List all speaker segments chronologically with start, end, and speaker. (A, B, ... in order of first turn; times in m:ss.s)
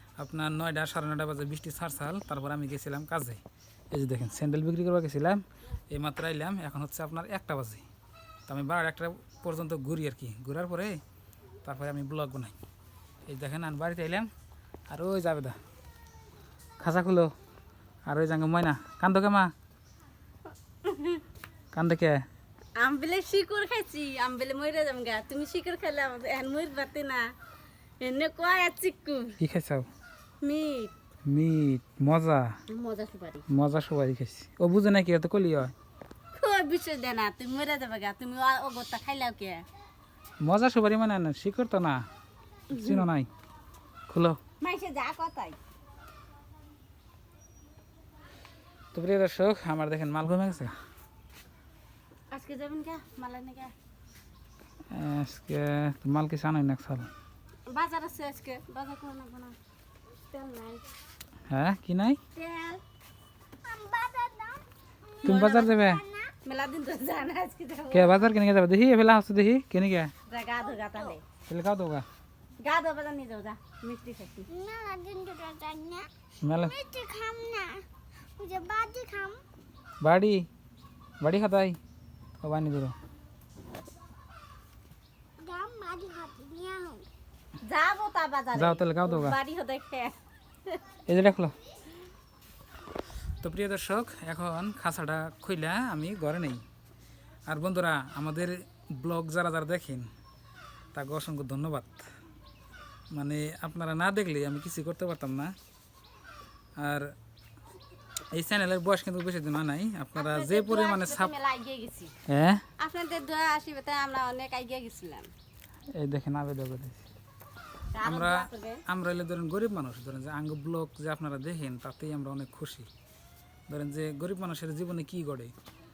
0:00.2-0:07.9 A
0:08.5-0:11.0 A
0:11.6-0:12.6 A
0:13.3-0:14.3 A
0:14.9-0:15.6 A
0:16.8-0:17.3 A
0:18.1-0:19.5 A
0:20.8-0:21.2 B
0:21.7-0:22.2 A
0:22.8-0:27.3 B
0:28.0-0:29.4 B
0:29.4-0:29.9 A
0:30.4-0:30.9 B
0:31.3-0:32.6 A
0:32.7-0:33.5 B
0:33.5-0:35.7 A
0:36.3-0:39.7 B
0:40.4-0:42.0 A
0:42.7-0:43.3 A
0:42.7-0:43.1 B
0:44.1-0:44.4 A
0:44.6-0:45.6 B
0:48.9-0:50.8 A
0:52.3-0:53.7 B
0:54.9-0:57.1 A
0:57.7-0:59.6 B
1:00.3-1:00.9 B
1:01.5-1:02.2 A
1:02.3-1:02.8 B
1:03.6-1:04.7 C
1:05.2-1:06.4 C
1:05.2-1:05.8 B
1:05.2-1:06.0 A
1:06.4-1:08.4 B
1:07.9-1:10.1 A
1:10.3-1:11.2 B
1:11.5-1:12.1 A
1:12.6-1:14.5 B
1:14.5-1:16.1 C
1:16.4-1:16.8 A
1:16.6-1:17.8 C
1:18.4-1:19.4 C
1:20.0-1:20.5 A
1:21.2-1:21.8 A
1:22.4-1:23.0 A
1:25.4-1:27.1 C
1:27.6-1:30.2 B
1:28.5-1:29.4 A
1:31.1-1:31.6 A
1:33.4-1:36.6 A
1:37.5-1:40.1 A
1:40.9-1:42.1 A
1:43.1-1:45.5 A
1:46.8-1:47.1 A
1:48.4-1:51.3 A
1:50.2-1:52.1 B
1:52.3-1:52.6 A
1:52.8-1:55.3 B
1:55.9-1:57.0 A
1:57.9-1:58.8 B
1:58.0-2:02.9 A
2:03.7-2:05.5 A